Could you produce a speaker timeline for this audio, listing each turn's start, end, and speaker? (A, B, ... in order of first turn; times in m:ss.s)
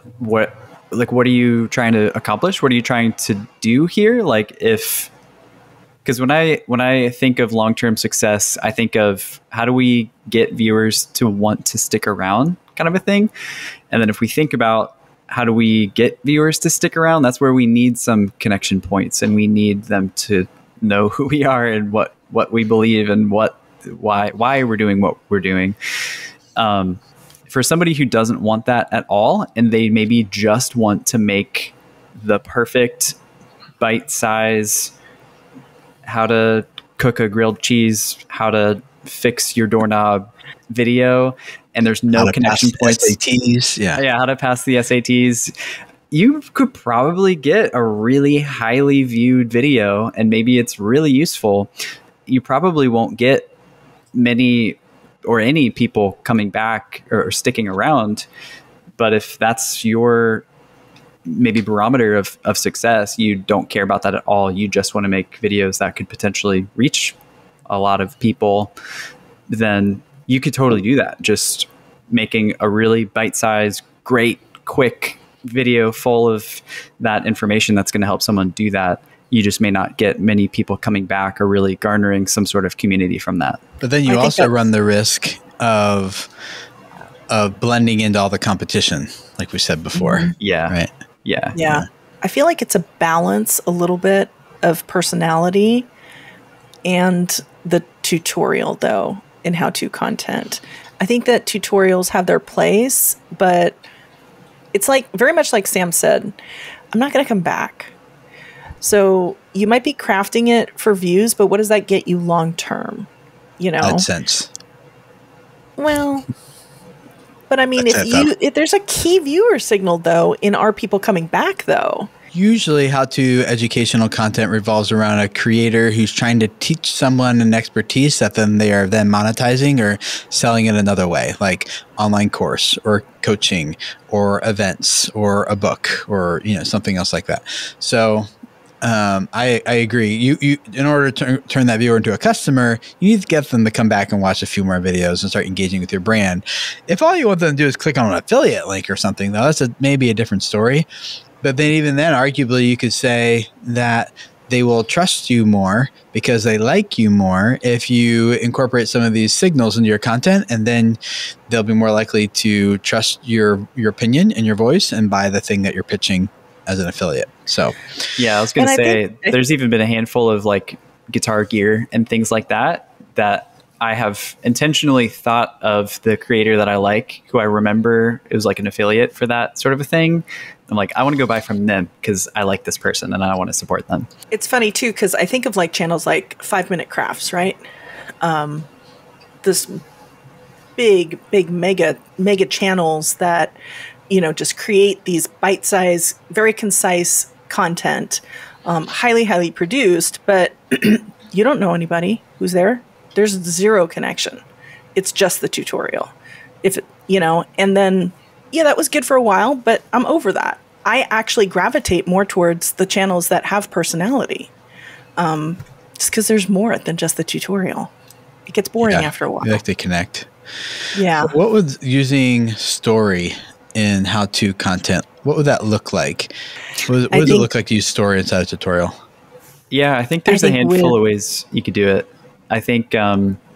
0:00.2-0:05.1 A
0:06.0-0:13.3 A
0:13.9-0:25.8 A
0:26.6-0:33.2 A
0:33.8-0:34.9 A
0:36.0-0:43.1 A
0:42.1-0:44.0 B
0:44.0-0:45.5 A
0:46.1-0:51.7 A
0:52.3-0:53.5 A
0:54.1-0:58.3 A
0:59.0-1:00.4 A
1:01.3-1:07.2 A
1:07.7-1:08.7 A
1:09.5-1:23.6 A
1:23.8-1:26.3 B
1:24.1-1:24.5 C
1:27.3-1:30.9 B
1:30.0-1:30.3 C
1:30.4-1:31.6 A
1:31.5-1:35.9 C
1:36.8-1:43.8 C
1:44.7-1:46.4 C
1:46.9-1:47.9 C
1:48.8-1:53.1 C
1:53.6-1:54.1 C
1:53.8-1:54.5 B
1:55.8-1:56.3 C
1:57.5-2:02.1 C
1:57.8-1:58.3 B
2:02.3-2:18.3 B
2:18.8-2:30.9 B
2:31.4-2:47.8 B
2:48.2-3:04.1 A
2:48.6-2:49.4 C
3:04.3-3:07.6 C
3:08.2-3:08.7 C
3:09.4-3:09.8 C
3:10.8-3:13.6 C
3:14.1-3:24.4 C
3:25.0-3:26.1 C
3:26.6-3:34.5 C
3:35.2-3:37.9 C
3:38.5-3:39.6 C
3:38.8-3:40.3 B
3:40.9-3:41.4 C
3:41.2-3:46.3 B
3:46.8-3:49.0 B
3:47.1-3:47.5 C
3:49.7-3:53.4 A
3:50.3-3:51.0 C